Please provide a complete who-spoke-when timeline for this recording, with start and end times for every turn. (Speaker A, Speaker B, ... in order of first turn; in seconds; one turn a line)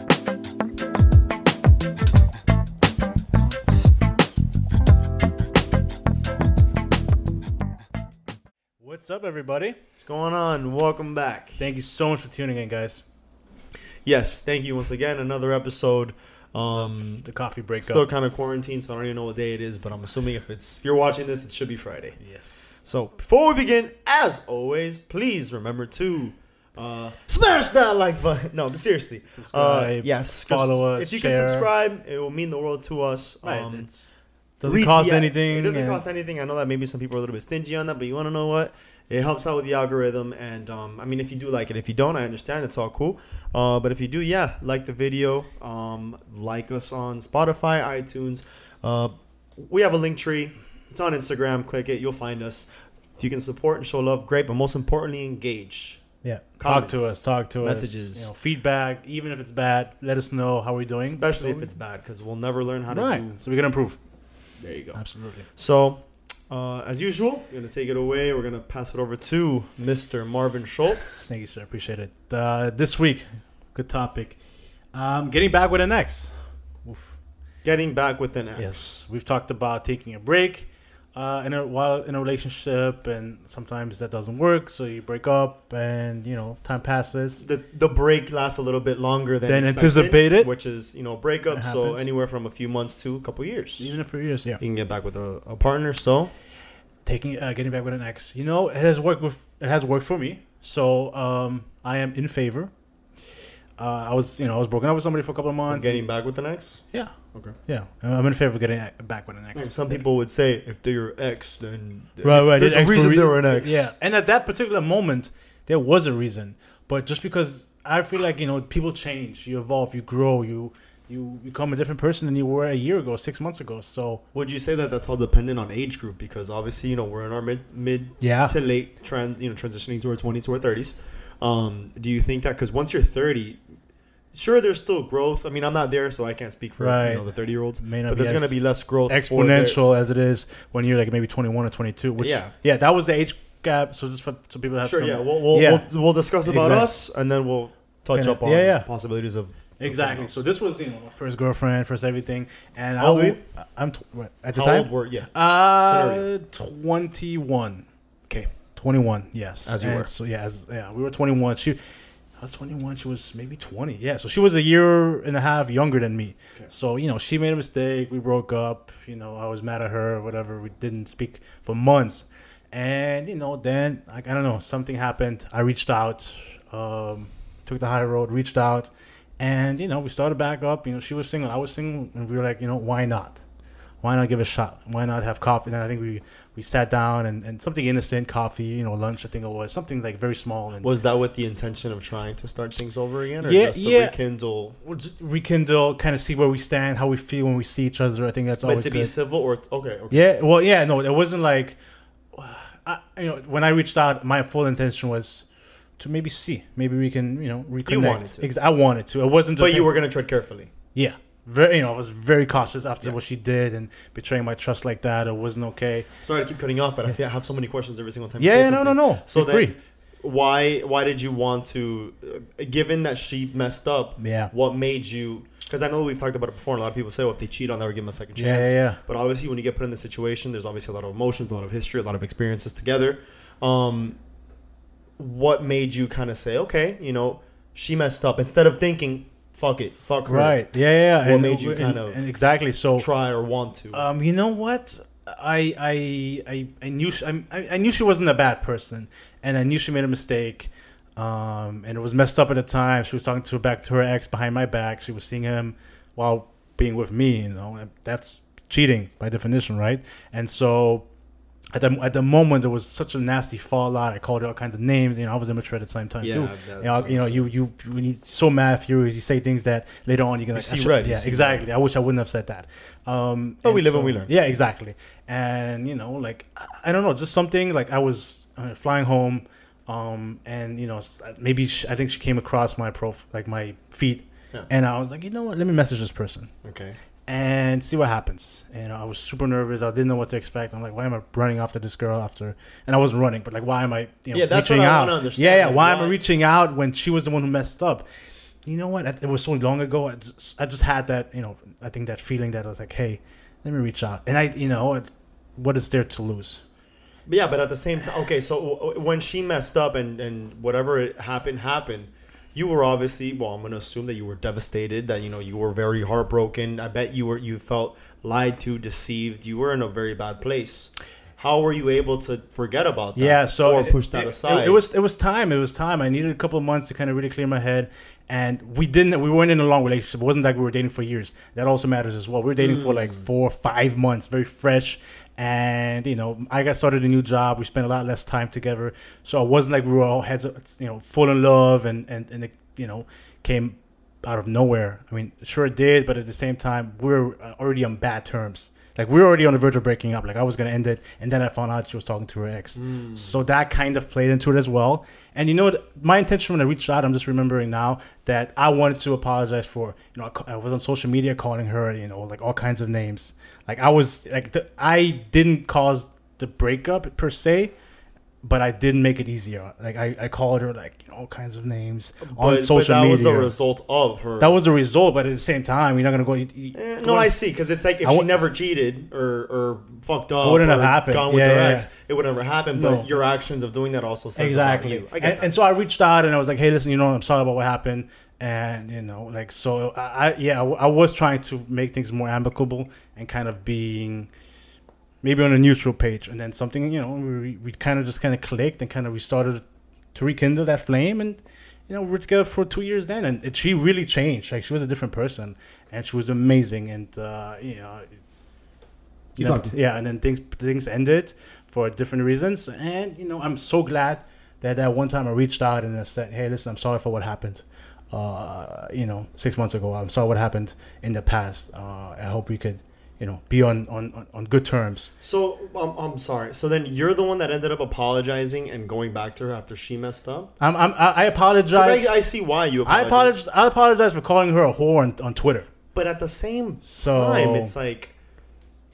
Speaker A: 8.8-9.8
Speaker B: 9.9-11.6
Speaker A: 11.6-13.0
Speaker B: 14.0-17.2
Speaker A: 16.7-18.0
Speaker B: 17.8-22.2
Speaker A: 22.2-22.8
Speaker B: 22.8-33.9
Speaker A: 29.3-31.7
Speaker A: 33.4-36.0
Speaker B: 34.6-58.3
Speaker A: 56.2-61.7
Speaker B: 61.0-63.4
Speaker A: 62.9-64.0
Speaker B: 64.6-71.3
Speaker A: 64.9-65.5
Speaker A: 71.2-77.2
Speaker B: 77.6-78.8
Speaker A: 78.5-87.4
Speaker B: 87.4-94.0
Speaker A: 89.5-90.5
Speaker A: 91.5-92.0
Speaker A: 93.8-94.6
Speaker B: 94.6-96.3
Speaker A: 97.0-102.7
Speaker A: 103.8-106.1
Speaker B: 105.7-107.5
Speaker A: 106.9-110.0
Speaker B: 109.5-113.9
Speaker A: 112.2-124.2
Speaker B: 124.3-133.6
Speaker A: 128.2-128.5
Speaker B: 134.3-139.8
Speaker A: 136.8-138.5
Speaker A: 139.1-145.9
Speaker B: 142.2-142.5
Speaker B: 144.8-150.3
Speaker A: 146.4-146.9
Speaker A: 148.1-148.9
Speaker A: 149.8-157.9
Speaker B: 153.0-153.4
Speaker B: 154.5-156.2
Speaker A: 158.7-183.4
Speaker B: 159.6-160.1
Speaker A: 184.0-190.9
Speaker B: 190.8-194.8
Speaker A: 193.4-194.1
Speaker A: 194.8-199.1
Speaker B: 198.6-200.3
Speaker A: 200.1-201.8
Speaker A: 202.3-205.4
Speaker A: 206.0-209.9
Speaker B: 207.9-208.5
Speaker B: 209.6-210.7
Speaker A: 210.9-216.1
Speaker B: 216.2-234.2
Speaker A: 218.4-219.7
Speaker A: 224.2-224.5
Speaker A: 228.3-229.0
Speaker B: 235.2-240.7
Speaker A: 240.2-243.1
Speaker B: 241.2-242.2
Speaker B: 242.9-244.0
Speaker A: 243.9-261.1
Speaker A: 261.7-286.5
Speaker B: 266.2-267.5
Speaker B: 270.5-271.6
Speaker B: 273.6-274.4
Speaker B: 286.6-287.0
Speaker A: 287.3-298.1
Speaker B: 294.3-296.2
Speaker A: 298.6-306.6
Speaker B: 307.2-324.8
Speaker A: 323.1-367.7
Speaker B: 332.6-333.3
Speaker B: 352.8-353.3
Speaker A: 368.4-373.5
Speaker B: 372.2-374.6
Speaker A: 374.4-377.3
Speaker B: 376.7-385.5
Speaker A: 380.4-381.9
Speaker A: 382.7-383.2
Speaker A: 384.4-394.3
Speaker A: 395.2-408.2
Speaker B: 409.4-409.7
Speaker A: 409.4-425.1
Speaker B: 425.2-430.5
Speaker A: 430.6-432.1
Speaker B: 431.7-433.4
Speaker A: 432.8-435.7
Speaker B: 435.9-438.1
Speaker A: 436.9-437.7